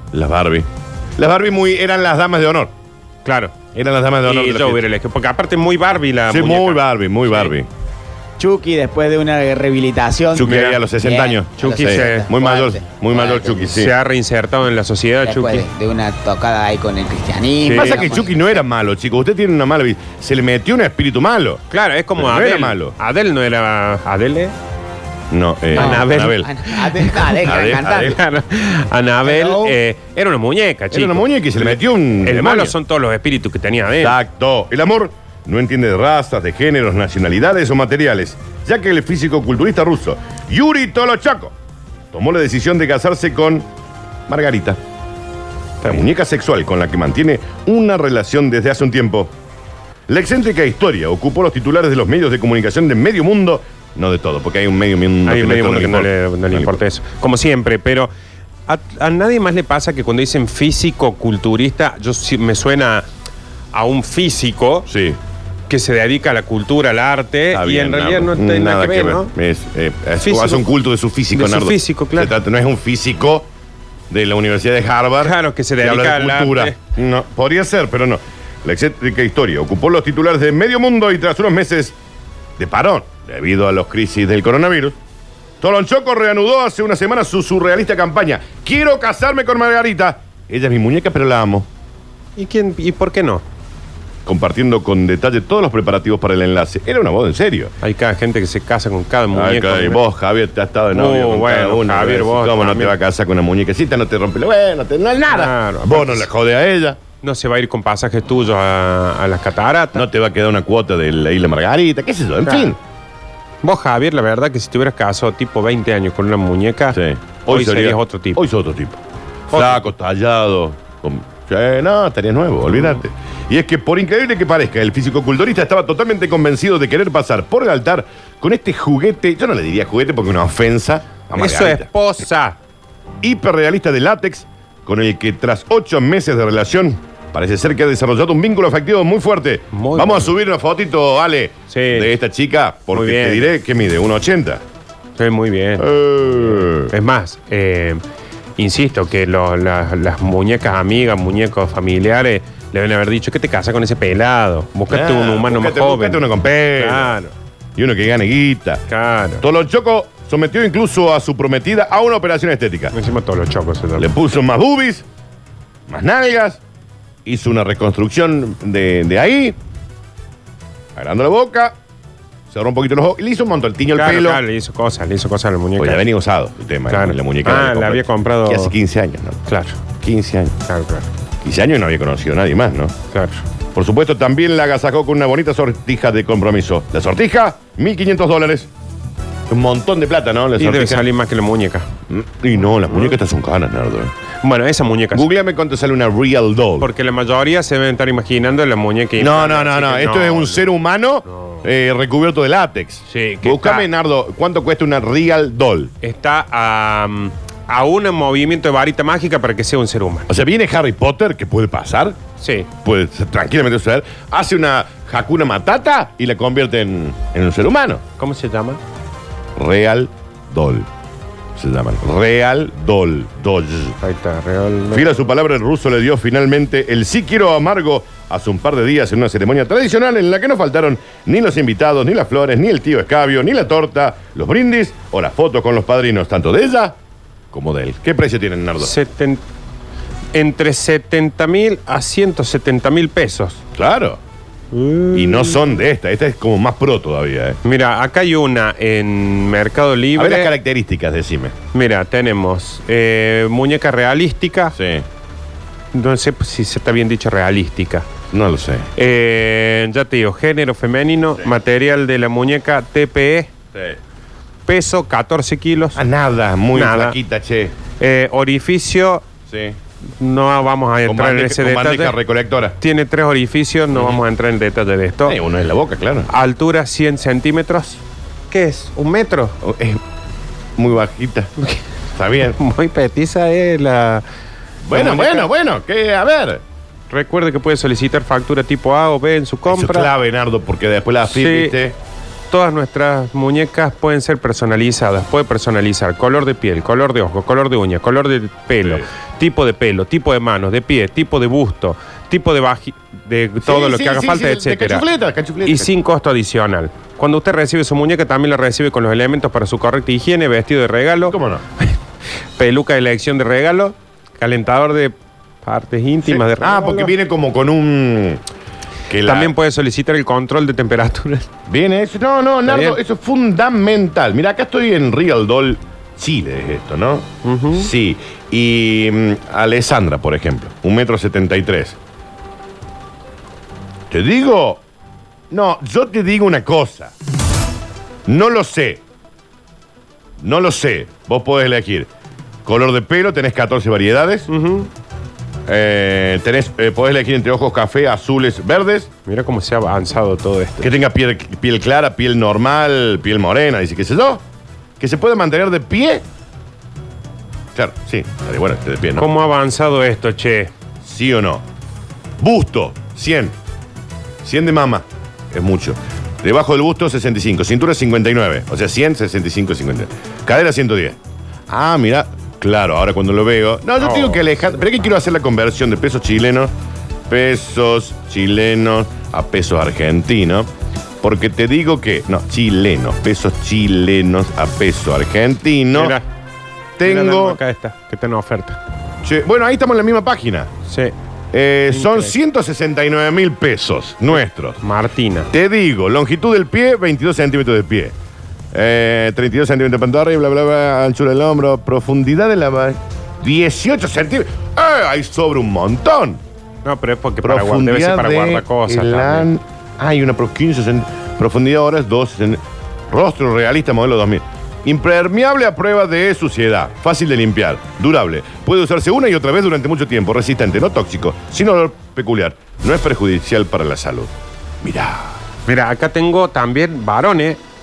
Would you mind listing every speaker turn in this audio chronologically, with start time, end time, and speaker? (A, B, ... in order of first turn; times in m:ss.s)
0:00.1-0:02.7 A
0:03.2-0:03.6 B
0:03.7-0:04.9 A
0:04.2-0:07.5 B
0:06.3-0:07.7 A
0:08.4-0:13.7 C
0:10.3-0:13.9 A
0:10.4-0:10.7 B
0:11.6-0:12.3 B
0:13.7-0:15.7 B
0:15.2-0:18.4 C
0:17.6-0:18.2 B
0:17.7-0:21.6 A
0:21.7-0:24.6 B
0:22.2-0:22.9 A
0:25.3-0:26.5 A
0:25.7-0:34.2 B
0:25.8-0:28.2 C
0:27.4-0:28.2 A
0:29.2-0:29.7 C
0:30.9-0:32.8 A
0:34.0-0:41.5 A
0:42.1-0:43.7 A
0:44.3-0:44.8 A
0:45.8-0:49.3 A
0:50.1-0:56.8 A
0:55.2-0:58.1 B
0:58.7-1:03.1 B
1:03.7-1:04.9 B
1:04.9-1:05.2 A
1:05.7-1:09.3 B
1:07.5-1:13.5 A
1:10.2-1:10.7 B
1:11.3-1:12.4 B
1:14.1-1:22.0 A
1:15.2-1:16.8 B
1:22.6-1:25.0 A
1:25.6-1:31.7 A
1:32.4-1:33.4 B
1:34.3-1:37.7 A
1:37.8-1:40.0 B
1:39.3-1:47.0 A
1:40.9-1:43.0 B
1:45.3-1:46.3 B
1:47.2-1:50.0 B
1:49.9-1:52.8 A
1:52.5-1:52.7 B
1:53.6-1:58.4 B
1:56.9-2:11.9 A
1:59.5-1:59.9 B
2:11.3-2:12.6 B
2:13.2-2:24.6 A
2:19.7-2:20.3 B
2:21.7-2:22.1 B
2:22.9-2:23.5 B
2:25.2-2:28.0 B
2:25.8-2:26.9 A
2:28.6-2:37.3 B
2:34.9-2:37.2 A
2:37.8-2:38.8 A
2:38.9-2:39.4 B
2:39.4-2:43.0 A
2:42.9-2:44.1 B
2:44.0-2:45.0 A
2:45.9-2:46.6 A
2:47.3-2:49.6 A
2:51.0-2:51.8 A
2:52.5-2:54.4 A
2:53.9-2:56.0 B
2:55.8-2:59.4 A
2:56.9-2:58.7 B
2:59.5-2:59.8 B
3:00.0-3:00.6 A
3:00.7-3:01.1 B
3:01.4-3:02.9 A
3:03.1-3:03.4 B
3:03.7-3:08.7 A
3:09.5-3:11.1 A
3:10.6-3:11.9 B
3:12.1-3:14.1 A
3:14.4-3:15.3 B
3:15.1-3:16.9 A
3:16.8-3:20.7 B
3:19.2-3:25.9 A
3:23.1-3:23.9 B
3:26.0-3:30.3 B
3:30.3-3:32.2 A
3:32.4-3:32.7 B
3:32.8-3:38.0 A
3:38.2-3:38.8 B
3:39.6-3:40.9 A
3:41.6-3:44.0 A
3:44.0-3:45.2 B
3:44.9-3:57.0 A
3:57.5-3:59.0 A
3:58.8-3:59.4 B
4:00.3-4:03.6 B
4:03.8-4:04.2 A
4:04.7-4:05.8 B
4:05.1-4:07.6 A
4:07.6-4:10.5 B
4:10.2-4:11.6 A
4:11.7-4:14.8 B
4:14.8-4:15.1 A
4:15.9-4:18.1 B
4:18.3-4:18.9 A
4:19.0-4:23.5 B
4:23.7-4:24.0 A
4:24.7-4:26.0 B
4:26.0-4:27.8 A
4:26.7-4:27.2 B
4:28.0-4:29.2 B
4:29.5-4:29.8 A
4:30.2-4:32.2 B
4:31.0-4:32.8 A
4:32.8-4:35.4 B
4:33.9-4:34.2 A
4:35.2-4:36.3 A
4:36.3-4:39.6 B
4:39.6-4:40.0 A
4:40.8-4:41.5 A
4:42.2-4:42.6 A
4:42.4-4:44.2 B
4:44.8-4:46.6 A
4:44.9-4:45.5 B
4:47.1-4:50.1 B
4:49.6-4:52.0 A
4:51.2-4:51.8 B
4:52.5-5:05.1 B
4:58.8-4:59.1 A
5:03.6-5:05.9 A
5:05.6-5:12.0 B
5:11.3-5:11.6 A
5:12.6-5:17.1 B
5:16.2-5:18.4 A
5:19.1-5:19.5 A
5:19.2-5:21.5 B
5:21.7-5:32.0 A
5:22.6-5:23.0 B
5:27.4-5:27.9 B
5:34.1-5:34.8 A
5:35.5-5:37.1 A
5:38.3-5:39.0 A
5:40.4-5:42.1 A
5:42.6-5:44.5 A
5:44.5-5:44.9 B
5:45.7-5:49.1 A
5:49.2-5:50.9 B
5:50.8-5:54.4 A
5:55.0-5:56.2 A
5:57.7-5:59.3 A
5:59.2-6:00.7 B
6:01.0-6:01.6 A
6:02.4-6:03.5 A
6:04.4-6:11.2 A
6:11.7-6:16.7 A
6:14.0-6:14.4 B
6:17.3-6:20.7 A
6:21.2-6:26.2 A
6:25.9-6:26.3 B
6:27.0-6:27.6 A
6:27.0-6:28.8 B
6:29.2-6:30.7 A
6:30.9-6:31.1 B
6:31.5-6:34.8 A
6:31.9-6:32.4 B
6:34.3-6:35.5 B
6:35.5-6:38.1 A
6:38.7-6:46.4 A
6:46.8-6:49.5 B
6:47.4-7:04.3 A
7:04.8-7:05.4 A
7:05.7-7:07.6 B